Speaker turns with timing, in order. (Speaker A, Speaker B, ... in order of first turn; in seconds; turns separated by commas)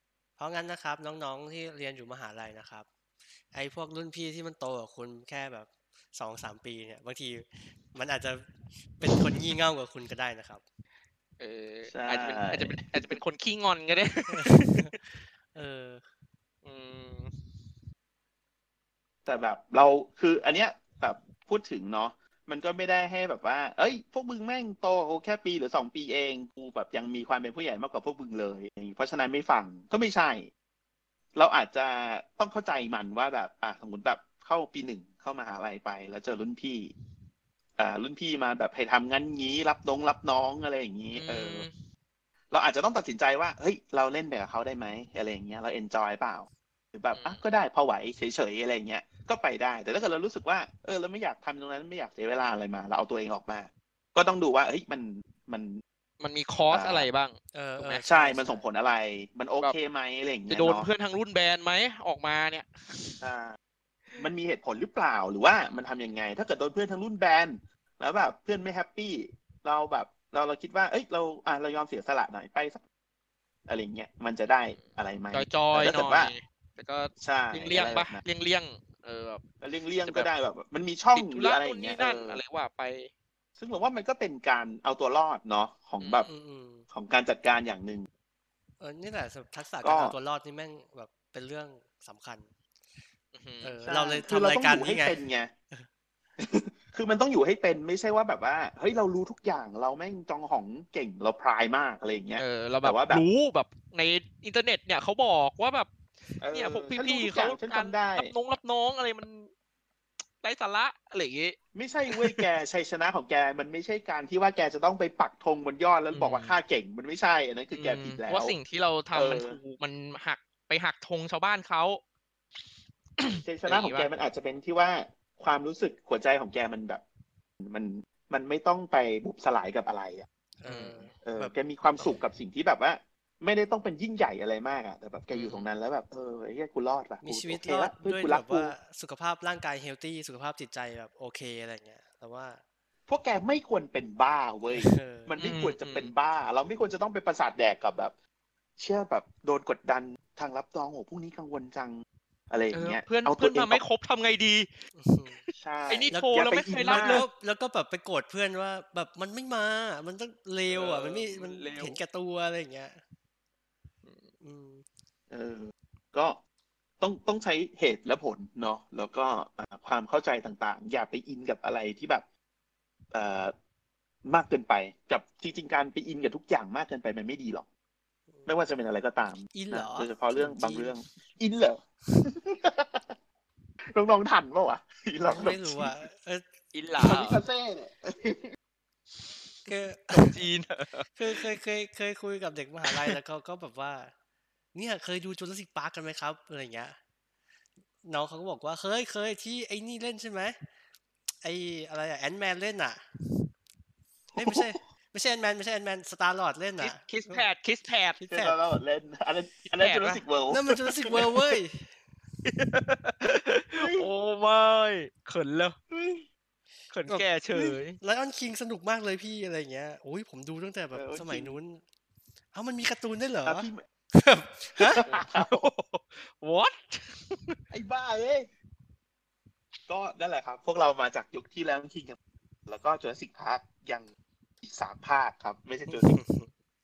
Speaker A: 0.4-2.9, Speaker A: 3.5-10.6, Speaker B: 11.4-15.0, Speaker C: 11.9-13.2, Speaker A: 14.3-16.0, Speaker B: 16.6-17.8, Speaker C: 19.2-30.5, Speaker C: 31.3-36.9, Speaker C: 37.8-41.6, Speaker B: 41.1-41.8, Speaker C: 42.5-55.8, Speaker B: 47.1-47.4, Speaker B: 56.2-58.0, Speaker C: 56.7-57.1, Speaker A: 57.5-58.6, Speaker C: 58.0-60.9, Speaker B: 60.5-63.2, Speaker C: 63.2-63.6, Speaker C: 64.2-72.8, Speaker C: 73.7-76.3, Speaker B: 74.7-79.4, Speaker C: 77.2-78.2, Speaker C: 79.6-82.4, Speaker B: 80.0-80.3, Speaker B: 81.1-83.1, Speaker C: 83.6-86.3, Speaker B: 86.0-86.3, Speaker A: 86.3-86.9, Speaker C: 86.9-88.1, Speaker A: 88.8-92.5, Speaker C: 89.8-90.1, Speaker B: 93.3-93.8, Speaker A: 93.6-95.2, Speaker C: 93.8-95.5, Speaker C: 96.4-103.2, Speaker B: 102.4-109.5, Speaker C: 106.4-108.3, Speaker B: 110.4-111.6, Speaker C: 111.7-118.5, Speaker B: 112.1-112.5, Speaker B: 116.1-116.5, Speaker B: 117.7-122.0, Speaker C: 119.1-119.6, Speaker B: 123.2-124.1, Speaker C: 123.2-127.0, Speaker C: 127.6-130.2, Speaker A: 130.6-131.5, Speaker B: 130.7-131.1, Speaker C: 131.2-138.8, Speaker B: 135.3-135.7, Speaker A: 137.2-142.6, Speaker C: 143.1-148.1, Speaker A: 144.7-145.3, Speaker B: 145.4-146.1, Speaker C: 148.8-153.8, Speaker B: 152.7-154.8, Speaker A: 154.9-155.4, Speaker C: 155.5-157.2, Speaker B: 155.9-157.3, Speaker A: 156.1-163.0, Speaker B: 160.7-162.0, Speaker A: 164.4-164.8, Speaker C: 165.3-166.4, Speaker C: 167.0-172.3, Speaker C: 173.1-173.5, Speaker C: 174.2-177.7, Speaker C: 178.4-183.2, Speaker A: 179.5-180.9, Speaker C: 183.9-185.9, Speaker A: 185.3-186.5, Speaker B: 186.7-187.4, Speaker C: 187.0-188.5, Speaker B: 189.2-191.5, Speaker A: 189.7-190.4, Speaker A: 191.2-194.1, Speaker B: 192.8-193.2, Speaker A: 194.7-196.9, Speaker A: 198.0-200.6, Speaker A: 201.4-203.0, Speaker C: 204.3-204.8, Speaker A: 204.3-207.5, Speaker B: 206.8-208.2, Speaker A: 208.2-208.6, Speaker C: 208.3-211.3, Speaker B: 209.8-210.2, Speaker A: 210.5-211.9, Speaker B: 212.4-215.8, Speaker C: 213.8-214.1, Speaker C: 215.9-216.3, Speaker B: 216.9-218.0, Speaker A: 217.1-221.8, Speaker C: 220.9-221.6, Speaker A: 222.5-225.0, Speaker C: 223.4-223.8, Speaker C: 224.8-225.7, Speaker B: 225.0-227.6, Speaker C: 227.7-228.5, Speaker C: 229.9-234.1, Speaker C: 234.6-236.2, Speaker A: 235.9-236.5